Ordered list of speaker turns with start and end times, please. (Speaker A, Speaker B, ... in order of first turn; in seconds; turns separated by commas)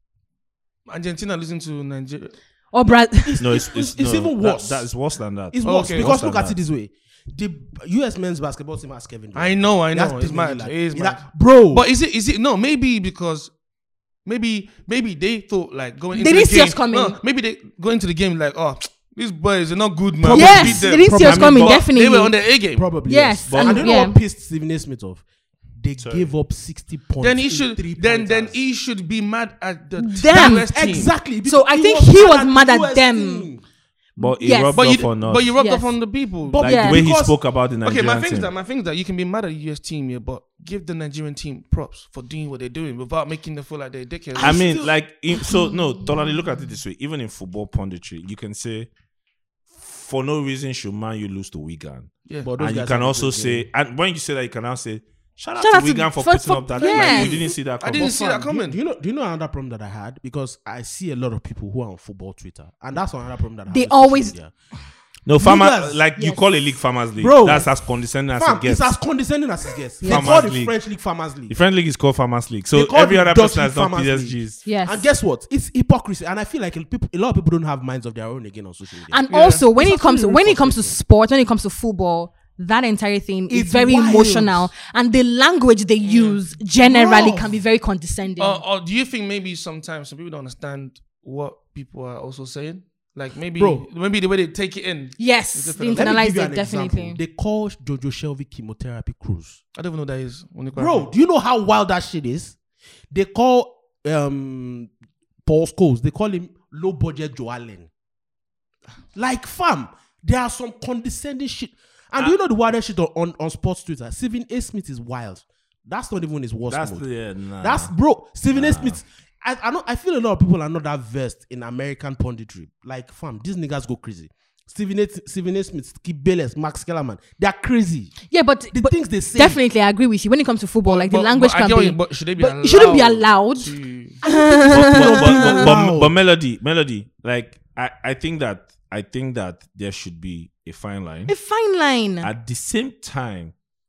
Speaker A: 0.9-2.4, Speaker B: 2.7-3.6, Speaker C: 3.2-4.9, Speaker D: 3.4-6.5, Speaker C: 5.5-11.9, Speaker A: 5.6-6.1, Speaker A: 9.3-13.5, Speaker A: 14.2-22.9, Speaker B: 16.1-17.2, Speaker C: 20.2-21.8, Speaker B: 20.3-22.4, Speaker D: 21.3-21.8, Speaker C: 22.7-25.2, Speaker B: 23.0-24.2, Speaker D: 23.4-24.0, Speaker C: 25.8-28.6, Speaker D: 26.0-26.3, Speaker A: 27.2-31.1, Speaker B: 30.0-30.7, Speaker C: 30.3-33.6, Speaker B: 31.4-33.5, Speaker D: 34.2-35.5, Speaker B: 34.2-37.0, Speaker A: 34.7-36.7, Speaker C: 36.5-37.4, Speaker D: 36.6-38.5, Speaker A: 37.8-44.8, Speaker C: 44.3-45.0, Speaker D: 44.4-48.9, Speaker D: 49.7-58.1, Speaker C: 52.4-53.7, Speaker B: 55.6-57.5, Speaker A: 56.8-58.8, Speaker C: 57.8-64.5, Speaker B: 63.7-64.3, Speaker D: 65.2-68.9, Speaker C: 65.4-66.2, Speaker C: 67.2-67.8, Speaker C: 68.3-71.6, Speaker B: 70.0-70.4, Speaker D: 70.0-70.8, Speaker D: 71.5-74.6, Speaker C: 72.7-81.0, Speaker B: 74.6-75.0, Speaker B: 79.1-88.6, Speaker A: 79.3-79.6, Speaker C: 83.5-84.7, Speaker A: 86.0-86.4, Speaker C: 86.8-87.6, Speaker A: 88.4-96.1, Speaker C: 93.5-93.9, Speaker B: 95.2-97.2, Speaker C: 95.9-99.6, Speaker A: 99.8-101.1, Speaker C: 100.7-102.6, Speaker C: 103.1-104.9, Speaker C: 105.4-107.9, Speaker C: 109.1-129.6, Speaker D: 116.7-117.9, Speaker D: 118.5-119.0, Speaker B: 128.3-135.7, Speaker A: 130.8-134.2, Speaker C: 134.3-136.1, Speaker D: 134.6-141.3, Speaker B: 141.3-142.3, Speaker D: 142.2-143.5